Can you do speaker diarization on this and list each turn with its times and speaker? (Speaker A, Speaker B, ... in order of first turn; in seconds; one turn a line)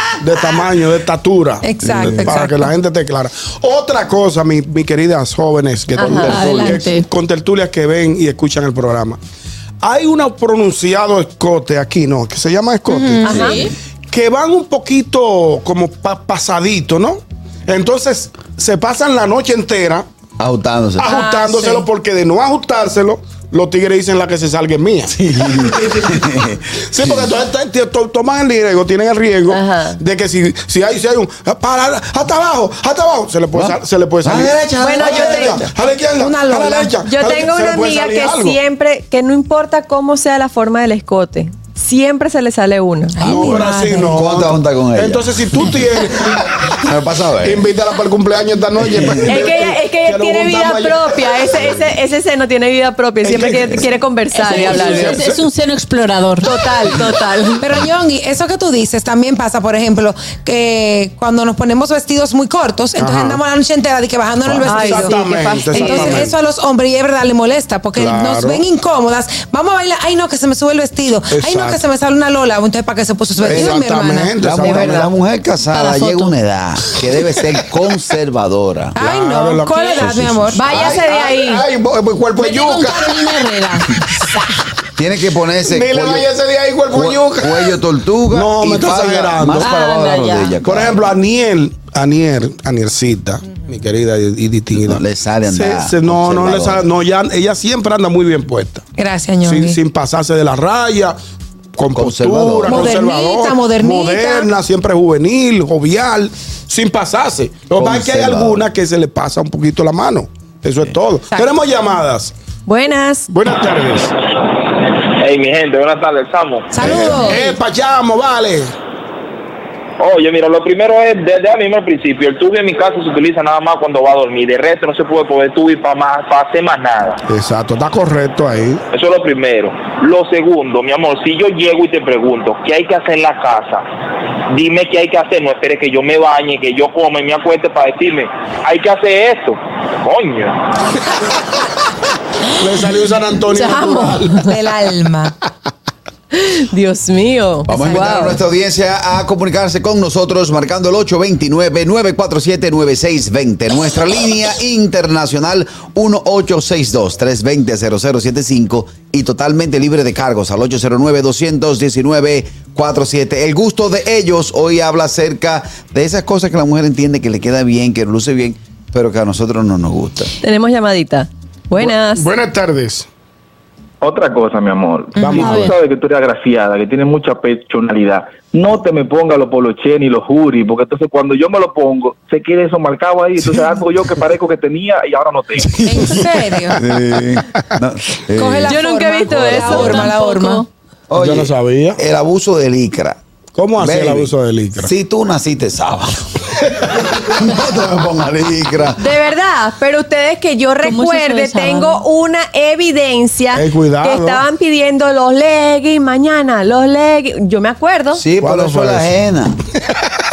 Speaker A: 0.2-9.2
Speaker B: 1.6-2.7
Speaker C: 1.8-2.4
Speaker D: 6.0-6.3
Speaker C: 6.0-6.8
Speaker E: 6.2-7.1
Speaker A: 9.8-13.6
Speaker B: 12.9-13.4
Speaker D: 13.2-13.6
Speaker E: 13.3-13.7
Speaker A: 14.1-20.1
Speaker C: 20.4-21.1
Speaker A: 21.0-25.1
Speaker C: 25.1-27.3
Speaker A: 25.9-26.1
Speaker A: 26.9-38.6
Speaker D: 29.5-30.0
Speaker C: 33.5-35.6
Speaker D: 34.8-35.6
Speaker B: 36.2-36.9
Speaker D: 37.0-43.2
Speaker B: 43.1-44.1
Speaker A: 43.2-46.8
Speaker C: 43.2-43.5
Speaker C: 44.1-45.7
Speaker C: 46.8-47.6
Speaker A: 47.4-51.7
Speaker C: 48.8-49.3
Speaker D: 49.2-55.2
Speaker A: 53.2-53.9
Speaker E: 54.3-56.5
Speaker A: 54.4-55.4
Speaker D: 56.4-57.6
Speaker B: 57.6-65.2
Speaker A: 63.0-63.4
Speaker A: 64.6-66.3
Speaker D: 64.7-66.3
Speaker B: 65.7-74.8
Speaker A: 67.9-68.6
Speaker A: 71.3-71.8
Speaker A: 73.4-75.1
Speaker C: 73.5-73.8
Speaker C: 74.4-79.0
Speaker E: 75.7-76.3
Speaker B: 79.0-80.7
Speaker A: 79.0-83.3
Speaker C: 80.0-81.0
Speaker D: 80.5-81.7
Speaker E: 82.3-84.0
Speaker C: 85.0-86.3
Speaker A: 85.7-87.7
Speaker C: 86.9-91.1
Speaker A: 88.3-89.7
Speaker E: 89.5-90.6
Speaker A: 90.6-98.9
Speaker C: 94.7-96.9
Speaker B: 99.0-99.8
Speaker A: 99.4-101.2
Speaker A: 101.8-112.3
Speaker C: 101.9-103.0
Speaker B: 102.7-104.5
Speaker C: 107.7-108.7
Speaker D: 112.7-113.3
Speaker A: 113.3-114.1
Speaker F: 115.1-116.7
Speaker B: 116.7-117.6
Speaker A: 116.8-118.7
Speaker F: 120.0-127.2
Speaker A: 127.3-128.8
Speaker F: 128.9-133.8
Speaker F: 134.5-140.6
Speaker A: 142.6-144.4
Speaker D: 143.5-144.6
Speaker B: 144.4-145.3
Speaker D: 146.3-148.4
Speaker C: 147.7-170.3
Speaker B: 147.7-148.1
Speaker D: 170.4-172.3
Speaker A: 171.8-173.1
Speaker G: 174.0-185.8
Speaker B: 175.2-175.5
Speaker A: 175.2-175.6
Speaker E: 175.3-175.7
Speaker A: 185.7-187.4
Speaker B: 185.8-186.8
Speaker C: 186.7-190.0
Speaker B: 188.3-190.6
Speaker D: 188.7-190.6
Speaker E: 189.7-190.6
Speaker C: 191.1-193.2
Speaker A: 191.2-192.0
Speaker A: 193.5-194.9
Speaker C: 193.8-199.0
Speaker D: 199.0-208.2
Speaker E: 200.8-202.0
Speaker A: 203.5-204.4
Speaker C: 208.1-209.6
Speaker A: 208.4-209.1